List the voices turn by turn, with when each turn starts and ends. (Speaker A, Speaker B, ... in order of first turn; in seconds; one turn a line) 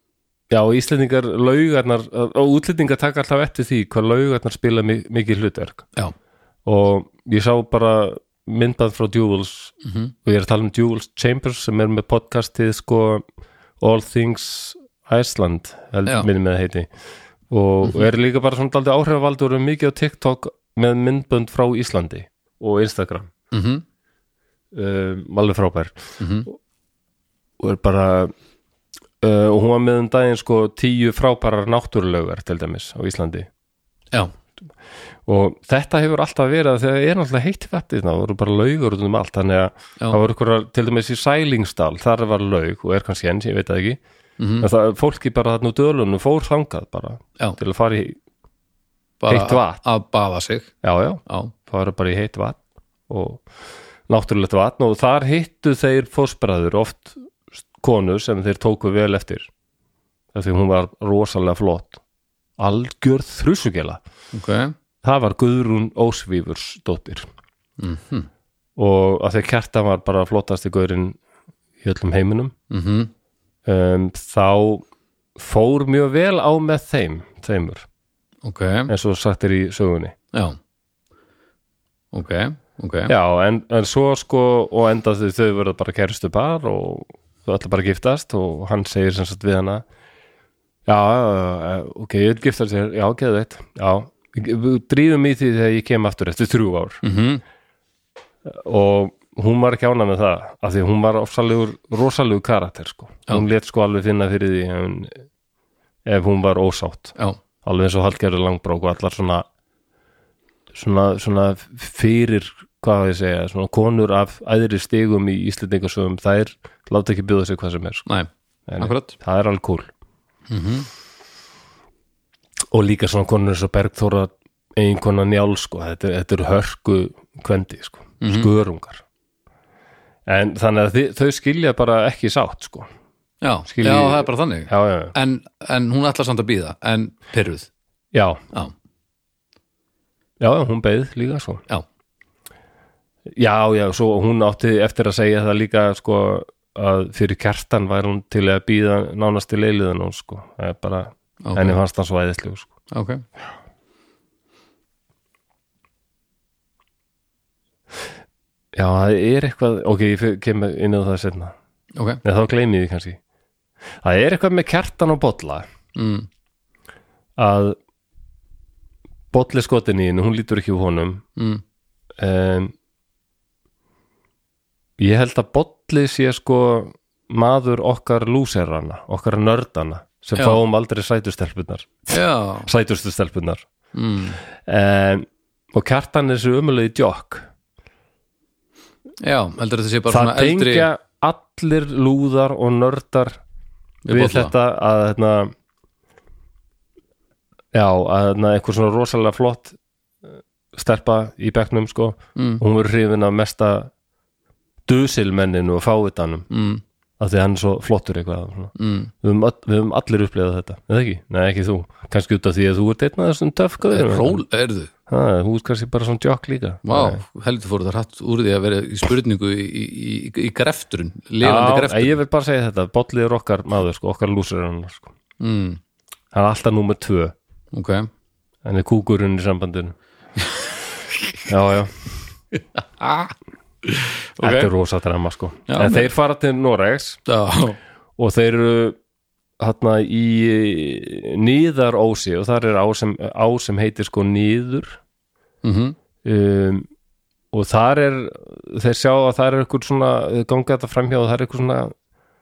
Speaker A: 0.5-5.9
Speaker A: 6.7-13.2
Speaker B: 9.8-10.1
Speaker A: 13.8-16.9
Speaker A: 17.5-23.3
Speaker B: 23.5-23.8
Speaker A: 24.7-26.0
Speaker B: 26.2-26.5
Speaker A: 27.6-28.3
Speaker A: 29.2-33.5
Speaker A: 35.3-44.0
Speaker B: 44.4-44.7
Speaker A: 44.6-48.2
Speaker B: 49.2-50.7
Speaker A: 49.3-49.8
Speaker A: 50.8-53.5
Speaker B: 51.3-51.5
Speaker A: 54.1-57.2
Speaker A: 57.8-59.5
Speaker A: 60.3-62.0
Speaker A: 62.6-64.0
Speaker B: 64.3-64.8
Speaker A: 65.0-67.3
Speaker B: 67.8-68.3
Speaker A: 68.8-71.2
Speaker A: 71.8-72.5
Speaker B: 72.7-73.1
Speaker A: 73.7-74.8
Speaker A: 75.4-77.9
Speaker B: 78.4-78.9
Speaker A: 78.9-80.2
Speaker B: 80.3-80.6
Speaker B: 82.1-83.1
Speaker A: 83.1-89.8
Speaker A: 90.9-97.0
Speaker B: 97.0-97.4
Speaker A: 98.5-105.2
Speaker A: 106.1-109.5
Speaker A: 110.7-118.1
Speaker A: 118.7-119.9
Speaker B: 118.8-119.2
Speaker B: 120.5-120.9
Speaker A: 122.7-129.0
Speaker B: 128.2-128.5
Speaker A: 130.3-132.9
Speaker B: 133.4-137.7
Speaker A: 133.7-135.2
Speaker A: 138.1-138.4
Speaker A: 140.4-141.6
Speaker A: 143.3-152.7
Speaker B: 151.4-151.8
Speaker B: 152.9-153.2
Speaker A: 158.7-161.6
Speaker B: 162.0-162.2
Speaker A: 162.2-163.2
Speaker A: 164.0-165.7
Speaker B: 165.9-166.3
Speaker A: 167.4-167.8
Speaker A: 169.3-171.2
Speaker B: 171.4-171.6
Speaker A: 172.2-172.7
Speaker A: 175.0-183.7
Speaker B: 182.1-182.7
Speaker B: 183.9-184.4
Speaker A: 184.6-187.5
Speaker B: 189.2-190.9
Speaker A: 190.1-193.4
Speaker B: 194.1-194.5
Speaker A: 194.1-195.5
Speaker A: 197.7-199.8
Speaker A: 200.7-203.9
Speaker B: 202.4-202.6
Speaker A: 204.9-206.5
Speaker B: 206.5-206.8
Speaker A: 207.2-214.4
Speaker B: 208.8-209.1
Speaker B: 213.9-214.9
Speaker A: 215.1-217.2
Speaker B: 216.9-222.2
Speaker A: 221.4-225.1
Speaker B: 225.4-225.8
Speaker A: 226.3-227.3
Speaker B: 227.7-228.1
Speaker A: 228.6-229.9
Speaker A: 231.4-231.9
Speaker B: 232.8-233.3
Speaker B: 233.8-234.7
Speaker A: 234.4-237.2
Speaker B: 235.7-236.1
Speaker B: 237.3-237.8
Speaker A: 238.2-239.0
Speaker A: 239.6-245.0
Speaker B: 245.6-246.0
Speaker A: 246.2-246.9
Speaker A: 247.5-251.9